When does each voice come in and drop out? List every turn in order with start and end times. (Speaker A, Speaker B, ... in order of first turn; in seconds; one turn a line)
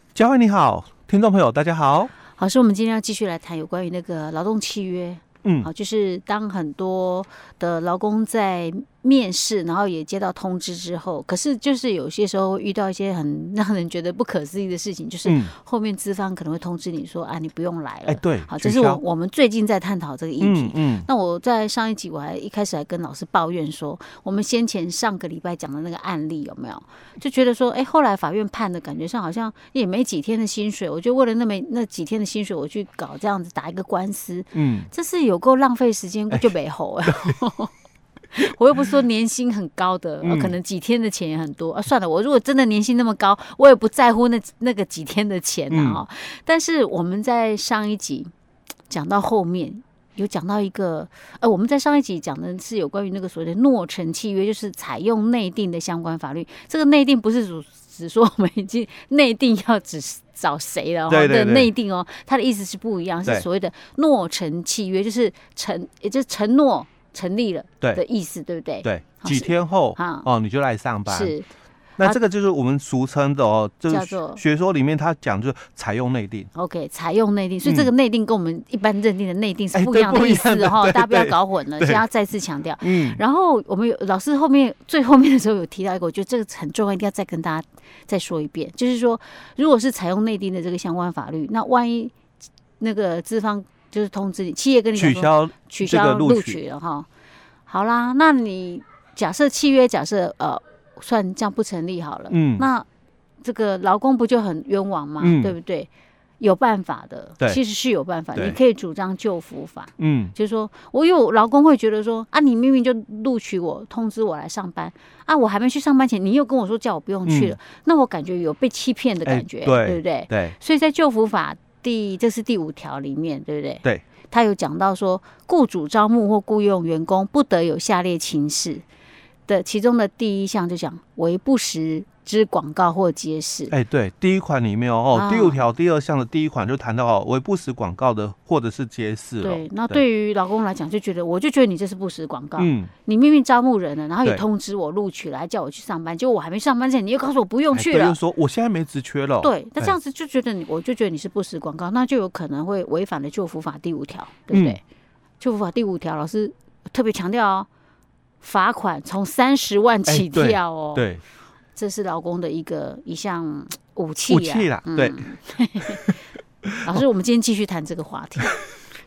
Speaker A: 0.1-2.1
Speaker B: 2.4-37.7
Speaker A: 5.4-5.7
Speaker A: 15.2-15.5
Speaker A: 18.1-19.0
Speaker A: 20.4-21.1
Speaker A: 34.5-34.9
Speaker A: 37.1-37.4
Speaker B: 38.3-48.3
Speaker A: 40.2-40.5
Speaker A: 45.7-46.0
Speaker B: 48.9-70.3
Speaker A: 61.1-61.7
Speaker A: 68.8-71.3
Speaker B: 71.1-71.5
Speaker A: 72.0-76.5
Speaker B: 73.9-74.4
Speaker B: 76.5-92.1
Speaker A: 77.7-77.9
Speaker A: 79.7-82.0
Speaker A: 82.8-83.2
Speaker B: 92.8-97.1
Speaker A: 95.0-96.6
Speaker B: 97.7-102.9
Speaker A: 102.3-102.7
Speaker B: 103.4-128.8
Speaker A: 105.2-105.5
Speaker A: 110.0-110.3
Speaker A: 117.3-117.6
Speaker A: 119.2-120.6
Speaker B: 129.5-133.7
Speaker A: 133.7-140.0
Speaker B: 135.1-135.6
Speaker B: 139.4-148.2
Speaker A: 142.6-142.9
Speaker A: 147.7-149.9
Speaker B: 149.4-154.8
Speaker A: 154.5-154.8
Speaker B: 155.4-157.7
Speaker B: 158.4-161.1
Speaker A: 160.1-161.2
Speaker B: 161.8-166.2
Speaker A: 164.3-165.3
Speaker A: 165.8-166.1
Speaker A: 166.7-166.9
Speaker B: 166.8-168.6